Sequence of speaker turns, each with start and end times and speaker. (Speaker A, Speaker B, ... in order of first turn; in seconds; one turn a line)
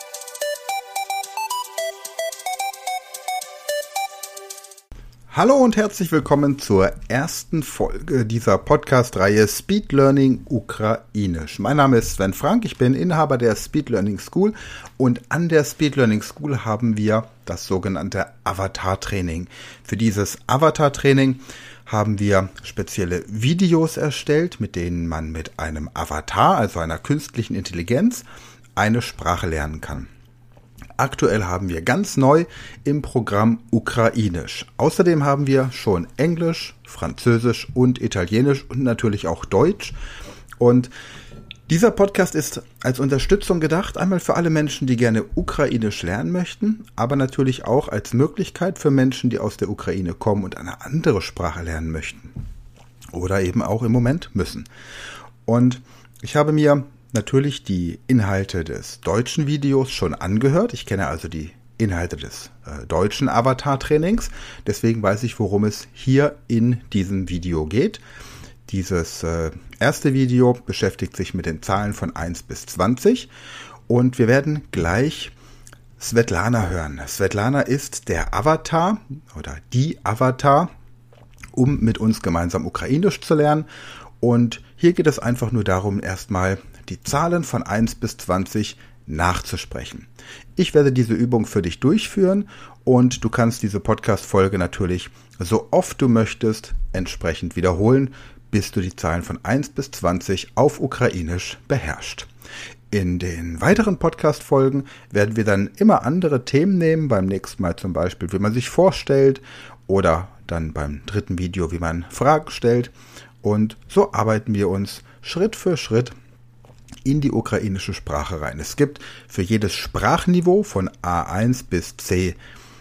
Speaker A: 5.3-30.1
Speaker A: 31.0-40.0
Speaker A: 40.6-40.9
Speaker A: 41.7-52.3
Speaker A: 53.1-54.7
Speaker A: 55.5-68.0
Speaker A: 68.7-73.3
Speaker A: 73.9-75.3
Speaker A: 76.0-80.7
Speaker A: 81.5-83.7
Speaker A: 84.2-102.3
Speaker A: 102.9-112.9
Speaker A: 113.4-116.1
Speaker A: 117.0-122.4